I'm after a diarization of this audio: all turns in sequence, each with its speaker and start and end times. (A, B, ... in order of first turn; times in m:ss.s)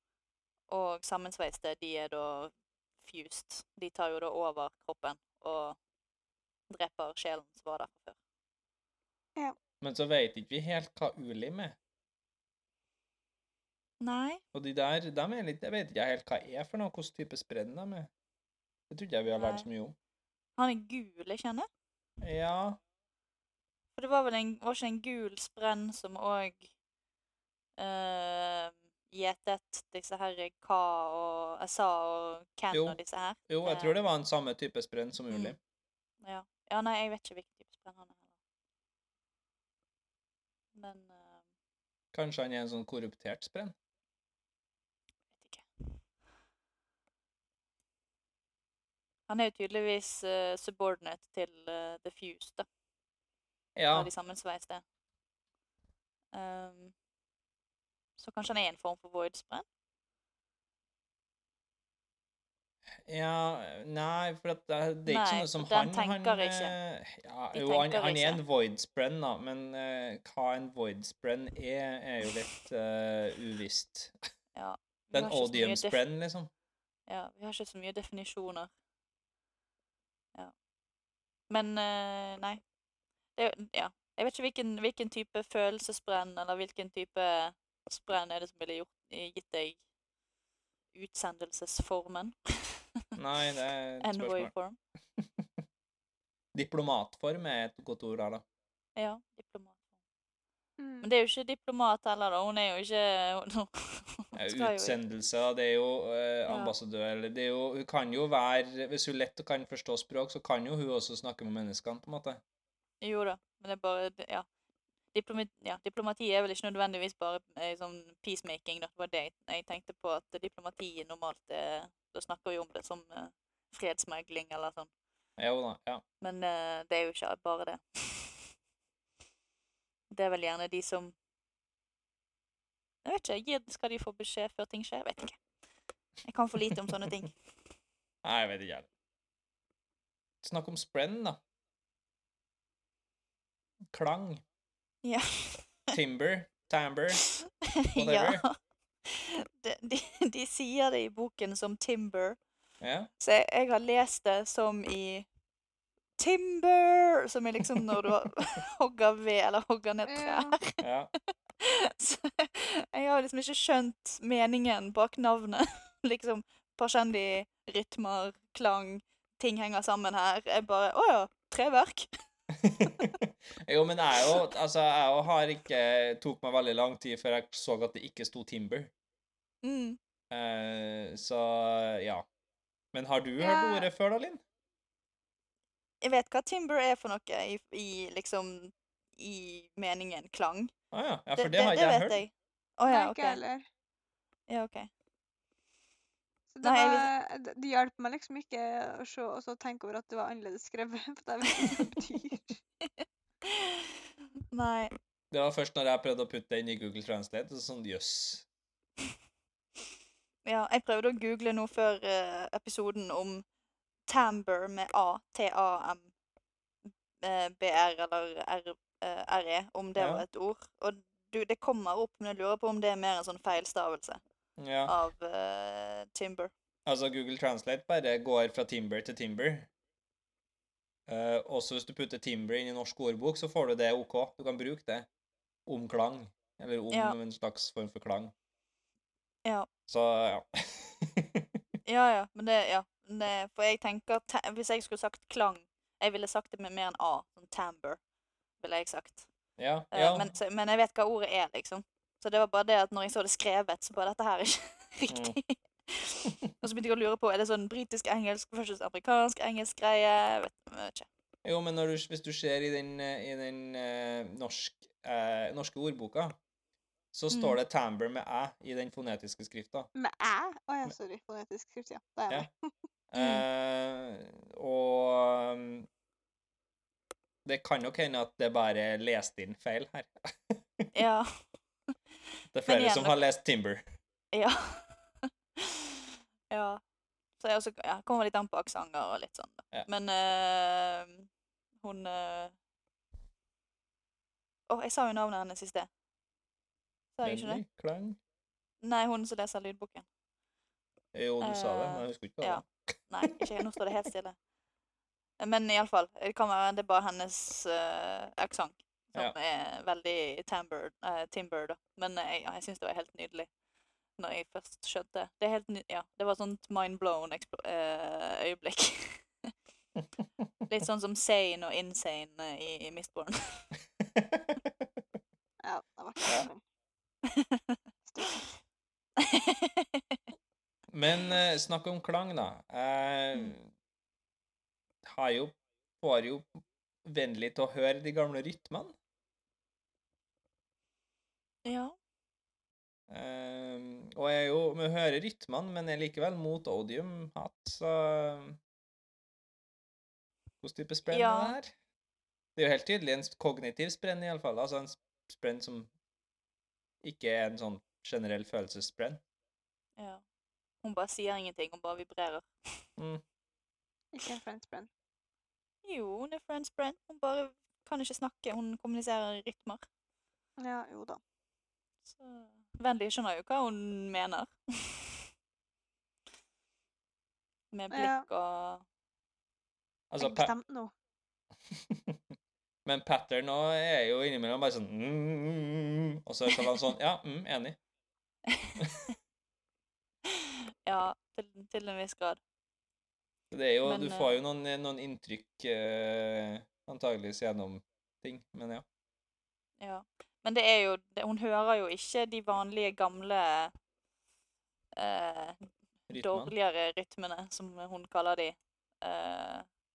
0:00.7-0:05.8 A
0:06.7-0:08.2 A
0:09.8-0:11.8 B
0:14.0-0:14.4 A
0:14.5-0:18.1 B
0:18.9-0:19.9 B
0:19.3-0:19.7 A
0:20.6-0:21.7 A
0:22.2-0:22.8 B
0:24.0-0:26.7 A
0:27.8-0:34.0 A
0:32.7-0:33.0 B
0:33.5-0:35.6 B
0:35.3-0:35.6 A
0:36.2-0:38.2 A
0:40.7-0:41.4 A
0:42.1-0:43.7 B
0:45.4-0:45.9 A
0:49.3-0:52.6 A
0:53.8-0:54.1 B
0:53.9-0:54.8 A
0:56.3-0:56.9 A
0:58.2-0:59.6 A
1:03.0-1:14.1 B
1:05.0-1:06.8 A
1:07.5-1:08.4 A
1:14.5-1:16.0 A
1:15.1-1:16.5 B
1:17.1-1:18.7 A
1:21.5-1:22.6 A
1:23.4-1:29.8 A
1:30.9-1:32.8 A
1:33.2-1:34.5 B
1:34.0-1:34.8 A
1:35.2-1:35.5 B
1:36.5-1:38.4 B
1:39.0-1:39.8 A
1:40.8-1:41.1 C
1:41.0-1:45.0 A
1:44.4-1:52.4 B
1:46.5-1:46.7 A
1:53.0-1:54.4 A
1:55.1-2:04.9 A
2:05.4-2:06.0 B
2:06.2-2:08.5 A
2:10.1-2:11.1 A
2:13.0-2:15.4 A
2:16.2-2:17.3 A
2:18.2-2:18.9 B
2:20.4-2:21.4 B
2:23.9-2:24.4 B
2:25.0-2:25.7 A
2:25.9-2:27.2 B
2:27.2-2:32.4 A
2:28.0-2:28.4 B
2:32.8-2:33.1 B
2:33.2-2:35.3 A
2:36.2-2:40.8 A
2:37.7-2:38.1 B
2:40.0-2:40.6 C
2:40.8-2:41.1 B
2:41.6-2:52.1 A
2:52.6-2:58.9 B
2:52.8-2:53.1 A
2:54.2-2:54.4 A
2:59.6-3:00.0 A
3:00.3-3:02.2 B
3:02.9-3:04.4 B
3:03.4-3:03.9 C
3:06.0-3:10.7 A
3:10.9-3:12.2 B
3:11.4-3:13.4 A
3:12.9-3:13.6 C
3:14.5-3:14.9 A
3:16.5-3:22.6 C
3:16.6-3:17.1 A
3:22.8-3:24.9 A
3:25.3-3:28.4 B
3:30.4-3:33.4 A
3:34.1-3:36.1 A
3:37.2-3:44.2 A
3:40.0-3:40.2 B
3:44.6-3:44.9 B
3:44.9-3:46.5 A
3:46.8-3:49.7 B
3:51.1-3:55.1 B
3:55.6-3:58.3 B
3:56.9-3:57.2 A
3:59.9-4:01.6 B
4:01.8-4:08.0 A
4:08.6-4:09.3 A
4:09.6-4:10.3 B
4:09.9-4:21.1 A
4:15.1-4:15.4 B
4:21.4-4:26.4 B
4:27.1-4:29.9 B
4:27.3-4:27.6 A
4:29.9-4:32.7 C
4:33.1-4:35.9 B
4:33.2-4:33.4 A
4:37.4-4:40.9 B
4:40.9-4:41.3 A
4:42.5-4:43.8 B
4:42.6-4:43.2 A
4:44.3-4:46.8 A
4:47.4-4:51.3 A
4:51.8-4:52.5 A
4:54.7-4:55.9 A
4:57.2-4:57.6 A
4:57.2-4:58.2 B
4:58.8-5:00.0 A
5:01.1-5:02.7 B
5:01.4-5:04.4 A
5:03.3-5:03.6 B
5:05.4-5:13.5 A
5:14.2-5:19.2 A
5:20.7-5:23.7 A
5:24.1-5:24.8 B
5:25.6-5:26.6 C
5:27.2-5:27.8 A
5:28.1-5:28.5 C
5:29.2-5:30.2 A
5:30.9-5:33.7 B
5:35.0-5:39.0 B
5:41.6-5:42.0 A
5:43.1-5:48.6 B
5:50.6-5:51.7 B
5:51.1-5:51.6 A
5:52.6-5:55.9 B
5:57.0-5:59.2 B
6:00.0-6:00.2 A
6:00.8-6:02.5 A
6:03.0-6:03.2 B
6:04.1-6:04.9 C
6:05.8-6:09.8 A
6:10.6-6:11.2 C
6:12.1-6:15.2 A
6:17.7-6:18.8 A
6:17.9-6:18.2 C
6:20.1-6:20.5 B
6:20.2-6:20.9 C
6:21.7-6:22.2 B
6:22.8-6:27.8 B
6:28.5-6:29.1 A
6:28.8-6:29.1 B
6:30.2-6:32.4 A
6:33.5-6:38.8 B
6:33.8-6:34.4 A
6:39.8-6:43.7 A
6:45.0-6:45.6 A
6:46.1-6:46.5 B
6:46.2-6:49.6 A